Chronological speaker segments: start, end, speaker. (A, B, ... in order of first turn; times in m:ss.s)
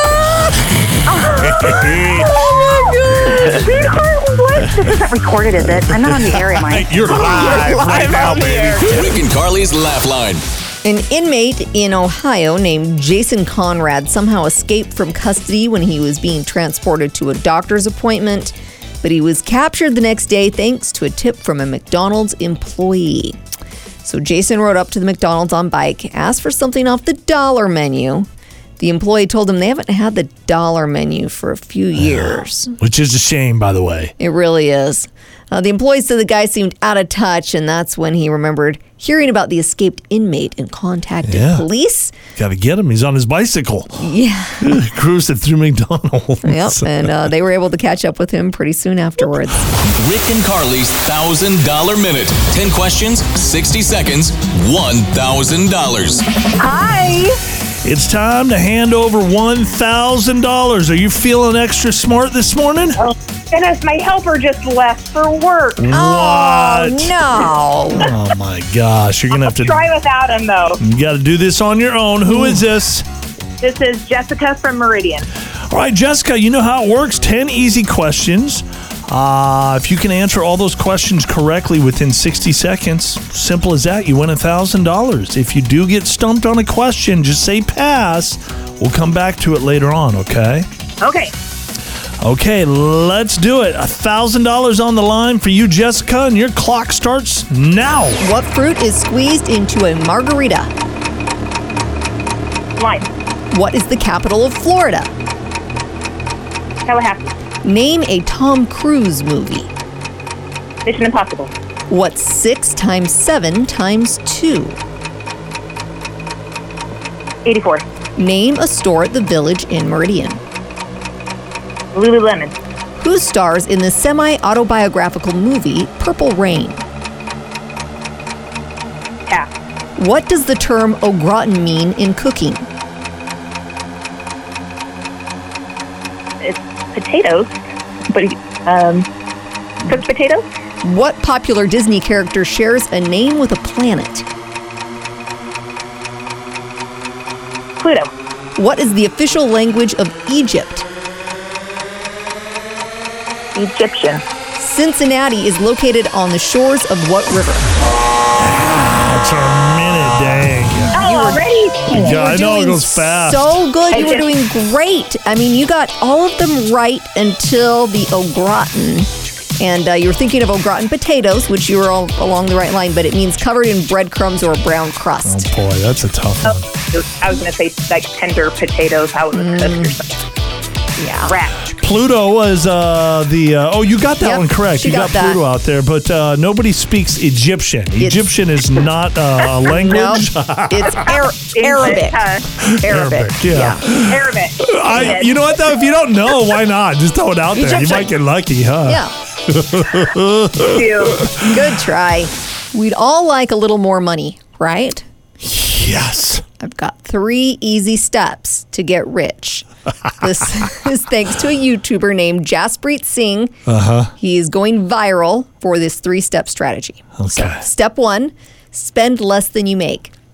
0:01.1-0:07.8 A
0:01.3-0:02.4 B
0:03.3-0:03.7 B
0:05.6-0:09.2 B
0:07.1-0:07.8 C
0:08.8-0:10.4 D
0:10.8-0:23.4 E
0:24.0-0:28.3 E
0:28.8-0:32.7 E
0:32.0-0:34.1 B
0:34.2-0:42.1 E
0:41.2-0:41.7 B
0:42.4-0:44.1 B
0:44.0-0:44.7 E
0:44.6-0:47.2 B
0:46.4-0:49.7 E
0:49.9-0:56.2 D
0:56.6-0:57.4 A
0:57.8-1:03.0 B
1:03.0-1:05.9 C
1:05.8-1:07.2 B
1:05.9-1:08.1 E
1:07.9-1:09.9 B
1:09.3-1:10.8 C
1:10.8-1:13.1 B
1:13.6-1:15.3 C
1:15.6-1:30.7 B
1:31.0-1:31.3 C
1:32.2-1:38.2 B
1:38.2-1:40.7 E
1:42.8-1:43.1 C
1:43.5-1:45.1 E
1:46.8-1:47.3 C
1:47.6-1:49.7 E
1:50.8-1:51.5 C
1:51.9-1:54.8 E
1:57.4-1:57.8 C
1:58.2-2:00.4 E
2:01.9-2:02.6 C
2:03.0-2:06.8 E
2:10.0-2:12.7 E
2:16.4-2:19.1 C
2:19.9-2:20.4 C
2:20.8-2:24.3 E
2:27.8-2:28.1 C
2:28.6-2:30.9 E
2:33.6-2:34.2 C
2:34.6-2:37.7 E
2:38.4-2:41.0 B
2:40.9-2:42.2 C
2:40.9-2:55.5 E
2:41.9-2:43.6 B
2:43.9-2:44.3 C
2:55.2-2:56.7 B
2:56.4-3:00.1 C
2:59.3-3:00.0 E
3:01.0-3:01.3 E
3:01.2-3:01.6 C
3:01.7-3:11.1 B
3:04.2-3:05.4 E
3:08.0-3:08.3 E
3:09.7-3:12.3 E
3:11.0-3:13.1 C
3:12.6-3:21.6 B
3:12.8-3:13.9 E
3:14.0-3:15.4 C
3:14.9-3:15.2 E
3:17.6-3:17.9 C
3:17.6-3:18.1 E
3:18.8-3:19.1 E
3:20.6-3:21.3 C
3:21.3-3:25.0 E
3:25.4-3:26.4 B
3:26.6-3:29.7 E
3:30.2-3:33.5 E
3:33.7-3:34.1 B
3:34.2-3:40.1 E
3:37.2-3:37.6 B